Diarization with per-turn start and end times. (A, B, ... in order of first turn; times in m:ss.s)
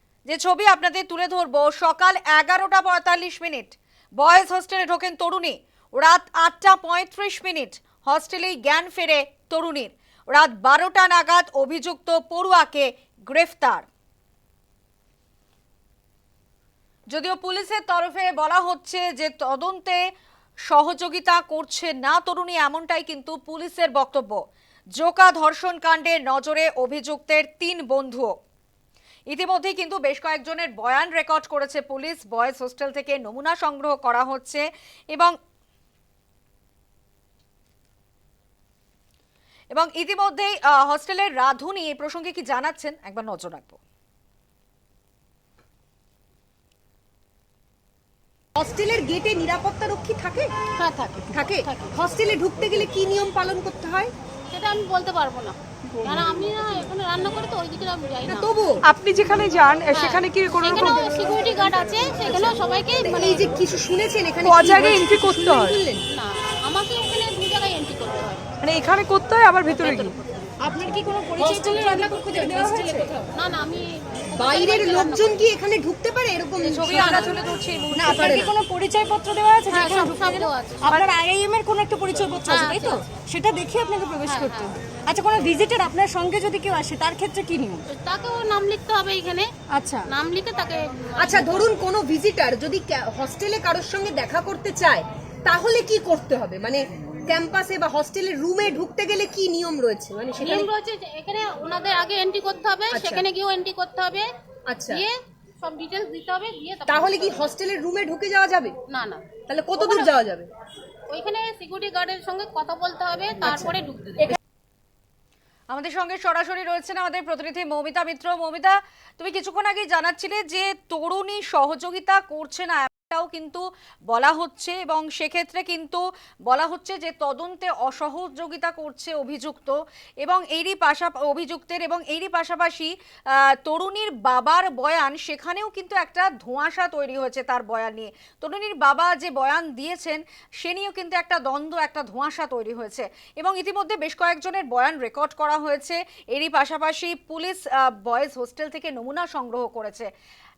0:00.2-0:13.9 A
0:17.1-0:20.0 A
0:20.7-0:24.4 A
0:25.0-0:28.3 A
0:29.3-0:35.3 A
0:39.7-0:43.8 A
0:48.6-0:50.5 B
0:50.8-0:51.9 C
0:51.3-0:54.1 B
0:54.5-0:58.5 C
0:58.2-0:58.8 B
0:58.8-1:01.0 D
0:59.9-1:03.5 C
1:00.7-1:01.0 B
1:02.3-1:06.0 B
1:04.4-1:05.8 D
1:06.1-1:08.4 C
1:08.6-1:10.1 D
1:09.7-1:10.5 C
1:10.6-1:13.2 E
1:11.4-1:15.5 C
1:12.3-1:13.1 B
1:14.4-1:17.4 B
1:16.6-1:18.4 A
1:16.8-1:17.5 C
1:17.9-1:18.5 B
1:18.0-1:27.8 E
1:19.7-1:21.0 C
1:22.4-1:23.0 C
1:24.2-1:24.8 C
1:27.9-1:29.5 C
1:29.7-1:30.0 E
1:30.0-1:31.7 C
1:31.2-1:40.7 B
1:40.4-1:44.3 C
1:42.9-1:43.2 B
1:44.7-1:45.0 B
1:44.9-1:47.5 C
1:46.9-1:48.8 B
1:48.9-1:50.2 C
1:49.4-1:50.5 B
1:51.1-1:54.4 C
1:53.4-1:54.4 B
1:55.7-2:30.1 A